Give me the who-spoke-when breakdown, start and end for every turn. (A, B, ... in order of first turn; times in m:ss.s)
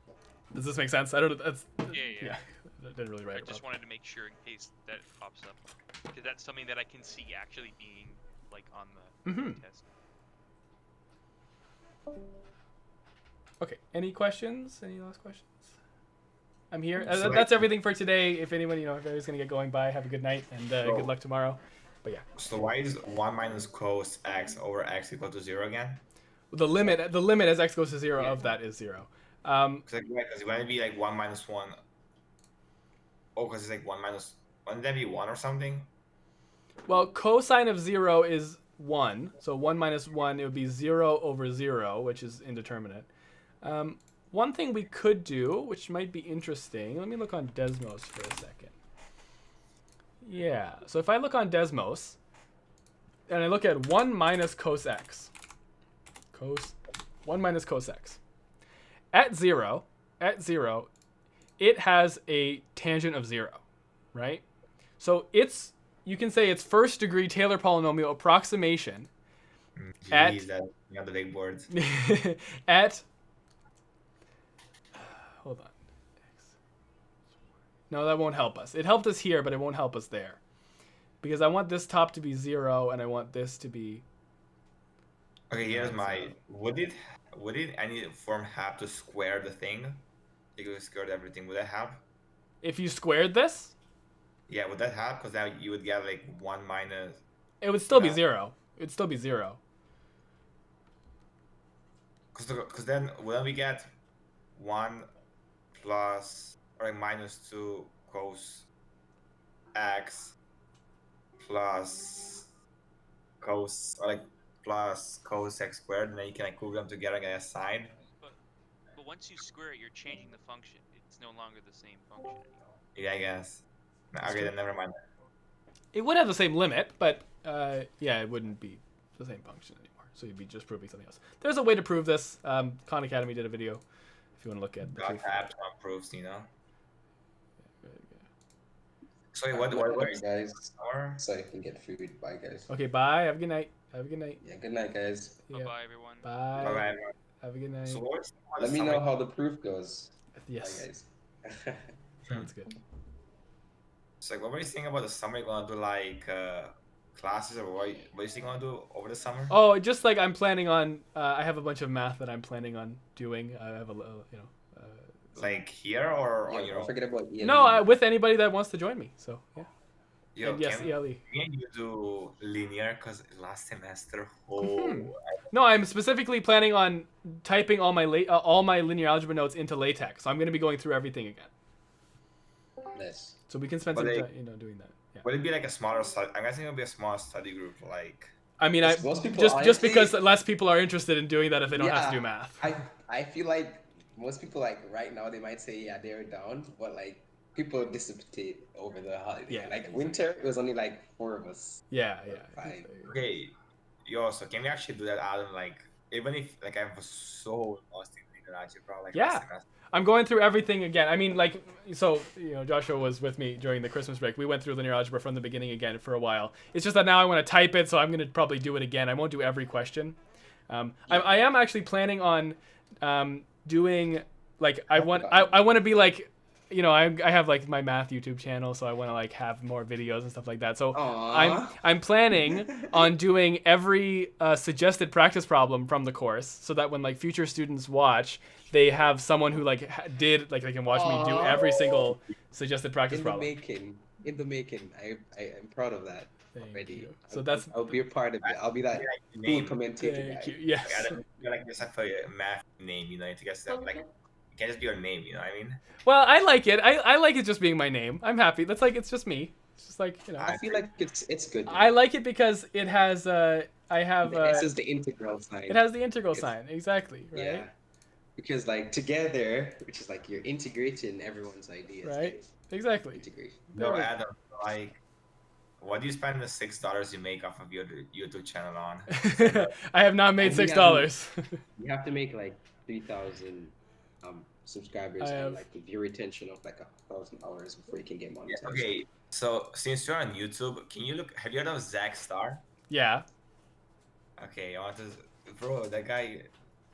0:00.5-0:03.6 A
0:01.9-0:02.4 B
0:03.3-0:09.8 B
0:09.2-0:09.6 A
0:13.6-0:15.7 A
0:16.7-0:22.3 A
0:17.0-0:17.7 C
0:20.8-0:21.2 C
0:22.4-0:26.0 C
0:26.5-0:29.8 A
0:29.9-0:31.8 C
0:33.4-0:35.9 C
0:36.9-0:43.1 A
0:43.6-0:48.7 A
0:50.2-0:52.2 A
0:53.3-0:55.3 A
0:56.3-0:58.2 A
0:59.1-1:00.9 A
1:01.6-1:03.6 A
1:04.1-1:04.4 A
1:05.0-1:09.1 A
1:09.8-1:11.7 C
1:10.1-1:10.5 A
1:11.7-1:13.0 A
1:15.4-1:15.8 A
1:17.9-1:20.4 A
1:21.2-1:24.0 A
1:25.5-1:30.0 C
1:25.7-1:26.4 A
1:30.6-1:32.0 C
1:32.6-1:33.7 A
1:34.5-1:37.2 C
1:37.6-1:39.6 A
1:37.9-1:38.2 C
1:42.3-1:43.9 C
1:44.6-1:45.1 C
1:45.7-1:48.7 C
1:49.7-1:50.4 C
1:51.4-1:52.5 C
1:53.4-1:58.0 C
1:58.9-2:02.6 B
2:03.0-2:05.0 C
2:04.2-2:04.5 A
2:05.9-2:13.8 A
2:14.4-2:15.5 A
2:14.9-2:16.5 C
2:17.8-2:18.2 A
2:19.3-2:21.2 C
2:19.5-2:22.7 D
2:22.7-2:24.4 A
2:24.4-2:25.4 D
2:25.5-2:28.0 A
2:25.5-2:26.3 B
2:26.6-2:27.2 C
2:27.9-2:29.1 C
2:28.6-2:31.9 D
2:30.4-2:30.9 A
2:32.3-2:32.8 A
2:34.2-2:39.6 C
2:39.5-2:45.5 A
2:45.4-2:46.9 C
2:46.5-2:47.9 D
2:47.4-2:49.7 A
2:50.4-2:55.2 C
2:50.4-2:51.2 A
2:54.6-3:01.5 A
3:02.9-3:03.4 D
3:03.5-3:05.2 A
3:03.9-3:04.3 C
3:05.2-3:08.3 C
3:08.6-3:12.7 A
3:08.8-3:10.2 D
3:11.7-3:23.2 D
3:19.5-3:19.8 A
3:21.9-3:23.1 A
3:23.1-3:29.7 C
3:29.1-3:40.2 A
3:40.7-4:03.5 A
3:41.1-3:41.4 D
3:44.9-3:45.7 D
3:50.9-3:51.8 D
3:52.3-3:53.2 D
4:00.9-4:01.9 D
4:03.1-4:10.6 D
4:06.5-4:07.9 A
4:08.4-4:09.8 C
4:10.0-4:11.2 A
4:10.8-4:15.8 C
4:16.0-4:20.5 A
4:20.4-4:22.0 D
4:20.4-4:20.8 C
4:21.7-4:24.7 A
4:24.2-4:26.5 D
4:25.7-4:27.7 A
4:27.3-4:27.7 D
4:28.4-4:32.5 D
4:32.0-4:34.1 A
4:33.1-4:33.7 D
4:33.7-4:35.0 C
4:35.8-4:39.8 C
4:39.1-4:41.6 A
4:40.4-4:41.1 D
4:41.8-4:49.0 D
4:45.2-4:45.6 A
4:48.5-4:52.6 C
4:52.9-4:53.2 A
4:54.4-4:56.5 C